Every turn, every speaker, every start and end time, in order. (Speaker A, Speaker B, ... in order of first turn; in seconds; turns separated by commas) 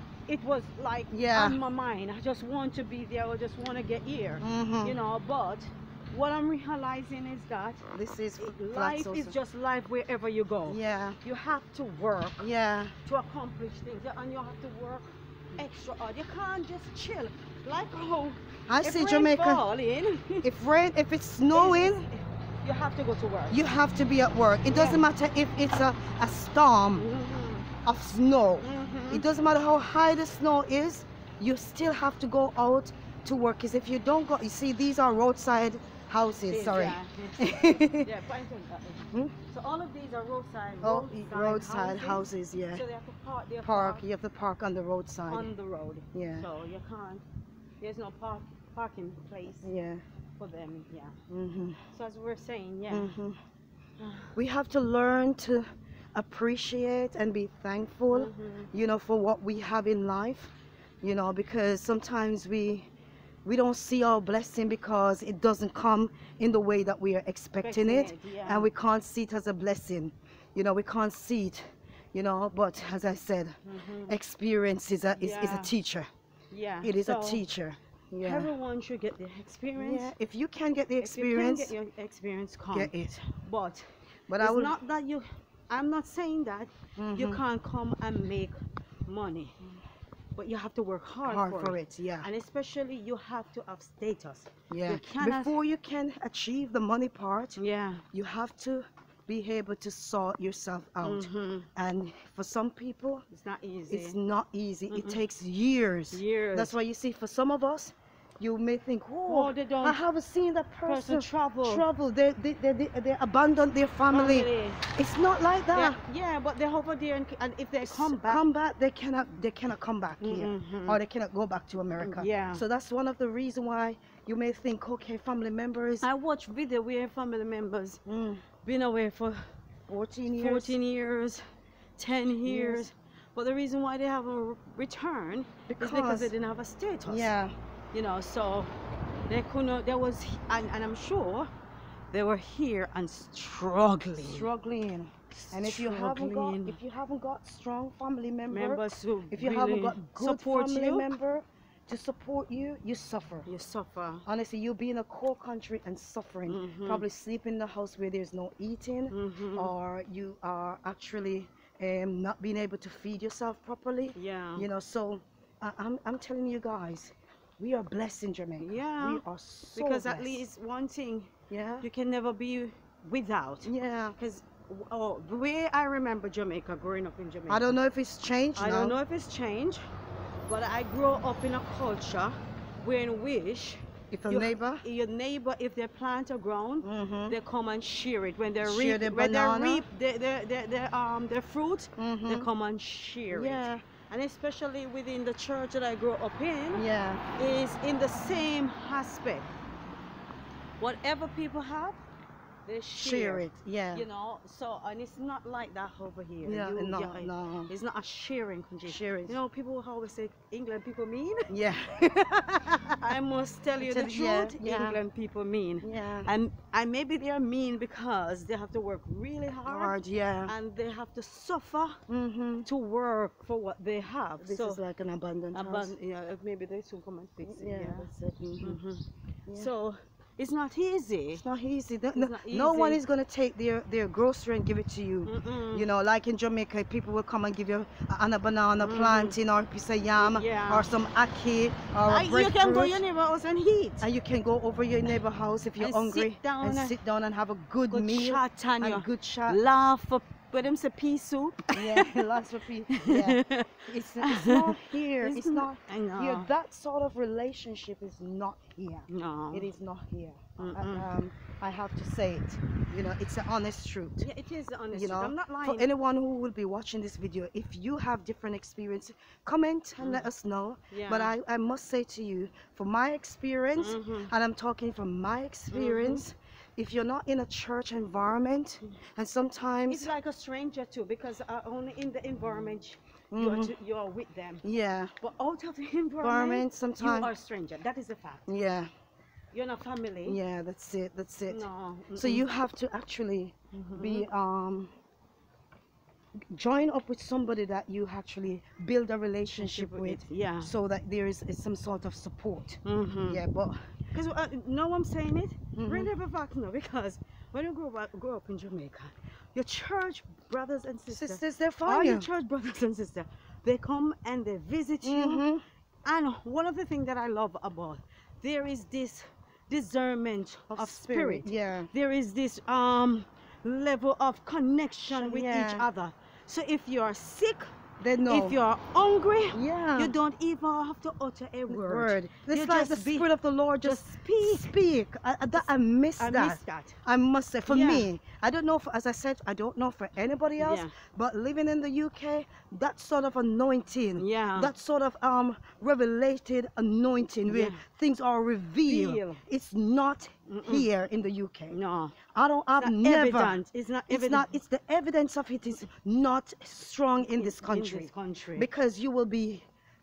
Speaker A: 0.3-7.9, Speaker B: 1.1-1.6, Speaker B: 4.4-5.0, Speaker B: 7.9-9.3, Speaker A: 8.4-12.5, Speaker B: 10.7-11.2, Speaker B: 12.4-12.9, Speaker A: 13.1-20.5, Speaker B: 18.7-19.6, Speaker B: 20.4-22.1, Speaker A: 21.5-23.6, Speaker B: 23.5-27.1, Speaker A: 24.7-25.0, Speaker A: 27.0-27.7, Speaker B: 27.9-38.1, Speaker A: 28.6-29.3, Speaker A: 36.5-44.1, Speaker B: 40.8-42.8, Speaker B: 43.6-45.5, Speaker A: 45.3-47.2, Speaker B: 46.1-46.5, Speaker A: 47.8-49.7, Speaker B: 49.6-50.0, Speaker A: 50.4-51.2, Speaker B: 51.3-51.8, Speaker A: 51.9-53.2, Speaker B: 52.9-53.4, Speaker A: 54.0-54.4, Speaker B: 54.4-62.9, Speaker A: 58.1-58.7, Speaker B: 63.5-76.1, Speaker A: 67.6-68.7, Speaker A: 73.7-74.2, Speaker A: 75.1-75.8, Speaker A: 76.5-77.4, Speaker B: 76.8-78.5, Speaker A: 78.2-80.1, Speaker B: 79.8-81.7, Speaker A: 81.0-83.9, Speaker B: 82.7-83.3, Speaker B: 84.3-84.8, Speaker A: 84.4-89.6, Speaker B: 87.0-87.4, Speaker A: 90.4-95.6, Speaker B: 91.2-92.3, Speaker B: 94.7-97.6, Speaker A: 97.6-98.0, Speaker B: 98.1-103.2, Speaker A: 101.0-101.7, Speaker A: 103.3-104.2, Speaker B: 103.9-116.0, Speaker A: 104.9-105.2, Speaker A: 106.1-106.8, Speaker A: 109.3-110.0, Speaker A: 110.9-111.8, Speaker A: 114.1-114.8, Speaker A: 115.7-118.4, Speaker B: 117.8-126.1, Speaker A: 120.2-121.0, Speaker A: 122.0-122.6, Speaker A: 126.0-128.0, Speaker B: 128.1-128.4, Speaker A: 128.6-129.5, Speaker B: 129.9-130.8, Speaker A: 130.3-131.5, Speaker A: 132.0-137.3, Speaker B: 132.5-132.8, Speaker B: 135.7-136.3, Speaker B: 137.1-137.6, Speaker A: 137.9-138.7, Speaker A: 139.3-141.5, Speaker A: 142.1-144.5, Speaker B: 144.2-153.5, Speaker A: 145.3-146.8, Speaker A: 148.5-151.1, Speaker A: 153.5-154.2, Speaker B: 154.3-170.4, Speaker A: 156.5-157.1, Speaker A: 159.1-159.7, Speaker A: 164.2-164.7, Speaker A: 168.6-169.2, Speaker A: 169.8-177.8, Speaker B: 171.5-171.9, Speaker B: 173.7-174.2, Speaker B: 177.5-179.0, Speaker A: 178.6-179.9, Speaker A: 180.5-196.9, Speaker B: 184.1-184.8, Speaker B: 186.8-187.3, Speaker B: 188.6-189.8, Speaker B: 192.0-192.5, Speaker B: 193.3-193.8, Speaker B: 196.7-197.3, Speaker A: 197.4-199.6, Speaker A: 200.8-202.0, Speaker A: 202.7-211.5, Speaker B: 202.9-204.1, Speaker B: 206.4-207.7, Speaker B: 208.9-209.4, Speaker B: 211.5-213.2, Speaker A: 213.0-219.9, Speaker B: 213.8-215.0, Speaker B: 215.8-216.3, Speaker B: 219.7-220.5, Speaker A: 220.5-222.0, Speaker B: 222.1-222.7, Speaker A: 222.7-224.8, Speaker B: 224.4-225.9, Speaker A: 225.5-228.1, Speaker B: 227.4-228.8, Speaker A: 228.6-231.4, Speaker B: 231.3-243.0, Speaker A: 232.1-233.0, Speaker A: 235.3-235.9, Speaker A: 238.8-239.4, Speaker A: 240.2-240.9, Speaker A: 242.1-244.1, Speaker B: 244.0-249.6, Speaker A: 245.8-247.0, Speaker A: 247.9-252.3, Speaker B: 251.7-264.3, Speaker A: 252.9-256.5, Speaker A: 259.1-259.7, Speaker A: 260.6-261.1, Speaker A: 264.2-265.9, Speaker B: 264.9-280.1, Speaker A: 270.0-270.3, Speaker A: 270.9-271.4, Speaker A: 273.8-274.3, Speaker A: 275.7-276.2, Speaker A: 279.9-284.6, Speaker B: 283.3-283.7, Speaker B: 284.6-285.1, Speaker A: 285.2-288.4, Speaker B: 286.2-287.3, Speaker B: 288.5-288.9, Speaker A: 289.5-290.4, Speaker B: 290.3-294.9, Speaker A: 291.5-292.5, Speaker A: 293.7-294.3, Speaker B: 296.5-303.8, Speaker A: 299.6-300.7, Speaker A: 302.9-303.4, Speaker A: 304.1-315.5, Speaker B: 305.8-306.1, Speaker B: 311.1-312.3, Speaker B: 315.0-315.6, Speaker A: 316.1-327.7, Speaker B: 320.7-321.9, Speaker B: 325.1-325.9, Speaker B: 328.0-328.6, Speaker A: 328.2-333.3, Speaker B: 329.5-330.1, Speaker B: 331.7-351.8, Speaker A: 333.8-334.7, Speaker A: 336.2-337.0, Speaker A: 337.7-338.1, Speaker A: 340.6-340.9, Speaker A: 344.2-344.7, Speaker A: 347.5-347.8, Speaker A: 348.9-349.4, Speaker A: 350.5-350.9, Speaker A: 351.7-352.2, Speaker B: 352.3-359.7, Speaker A: 352.8-354.6, Speaker A: 357.3-358.7